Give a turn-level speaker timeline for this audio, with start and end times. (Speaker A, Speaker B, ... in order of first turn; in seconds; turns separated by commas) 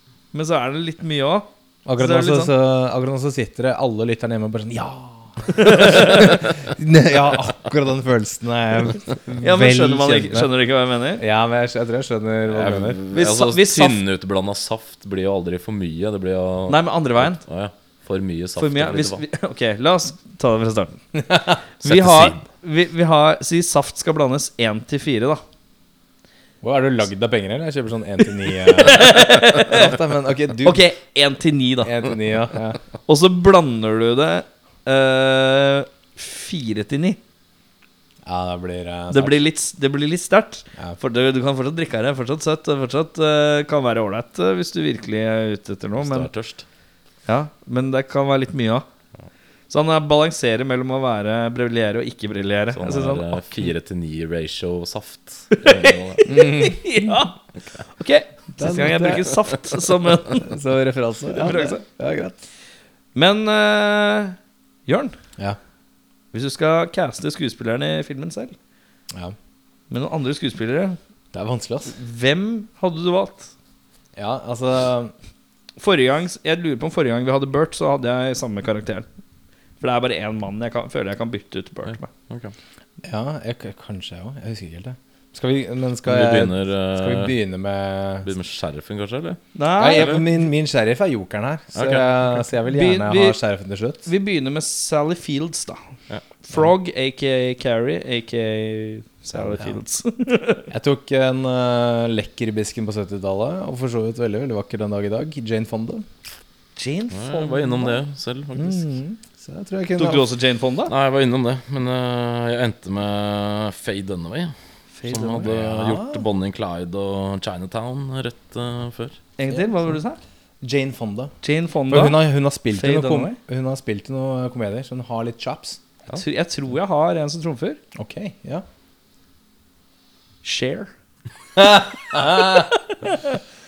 Speaker A: 0.3-2.5, Speaker B: 1.9-10.5, Speaker A: 5.5-6.3, Speaker A: 9.4-11.2, Speaker B: 11.2-13.0, Speaker C: 12.5-19.2, Speaker A: 13.1-14.0, Speaker A: 16.7-17.4, Speaker A: 18.6-21.0, Speaker B: 21.1-21.6, Speaker C: 21.8-22.4, Speaker A: 21.8-25.4, Speaker B: 26.6-30.8, Speaker A: 28.6-29.9, Speaker A: 30.6-32.0, Speaker B: 31.8-32.8, Speaker A: 33.1-37.2, Speaker B: 38.2-39.4, Speaker A: 39.1-46.3, Speaker C: 46.0-46.6, Speaker A: 47.3-48.9, Speaker A: 49.7-53.4, Speaker C: 52.7-56.3, Speaker A: 55.5-57.4, Speaker B: 56.3-56.8, Speaker A: 57.9-60.5, Speaker B: 58.6-59.3, Speaker B: 60.4-62.4, Speaker A: 61.3-61.8, Speaker A: 63.1-65.2, Speaker A: 66.3-68.6, Speaker B: 69.1-69.4, Speaker A: 69.9-71.0, Speaker B: 71.3-72.0, Speaker A: 71.9-73.5, Speaker B: 74.2-75.1, Speaker A: 75.8-79.1, Speaker A: 79.8-82.1, Speaker C: 82.3-82.5, Speaker B: 83.0-88.3, Speaker C: 86.0-87.3, Speaker C: 88.2-90.2, Speaker A: 89.5-90.2, Speaker B: 89.8-94.1, Speaker C: 91.8-92.4, Speaker A: 92.7-93.4, Speaker A: 94.1-95.9, Speaker A: 96.4-100.7, Speaker B: 99.4-99.8, Speaker B: 100.7-106.1, Speaker A: 106.8-108.0, Speaker C: 107.1-108.9, Speaker B: 108.5-110.3, Speaker A: 110.0-110.9, Speaker C: 110.9-114.5, Speaker A: 115.0-115.5, Speaker C: 115.1-119.2, Speaker B: 115.4-116.2, Speaker A: 119.4-120.2, Speaker B: 120.6-121.3, Speaker A: 121.4-122.2, Speaker B: 121.9-125.8, Speaker A: 122.7-123.4, Speaker A: 126.1-127.8, Speaker B: 128.0-128.7, Speaker A: 130.4-130.9, Speaker B: 131.6-132.7, Speaker A: 132.2-133.4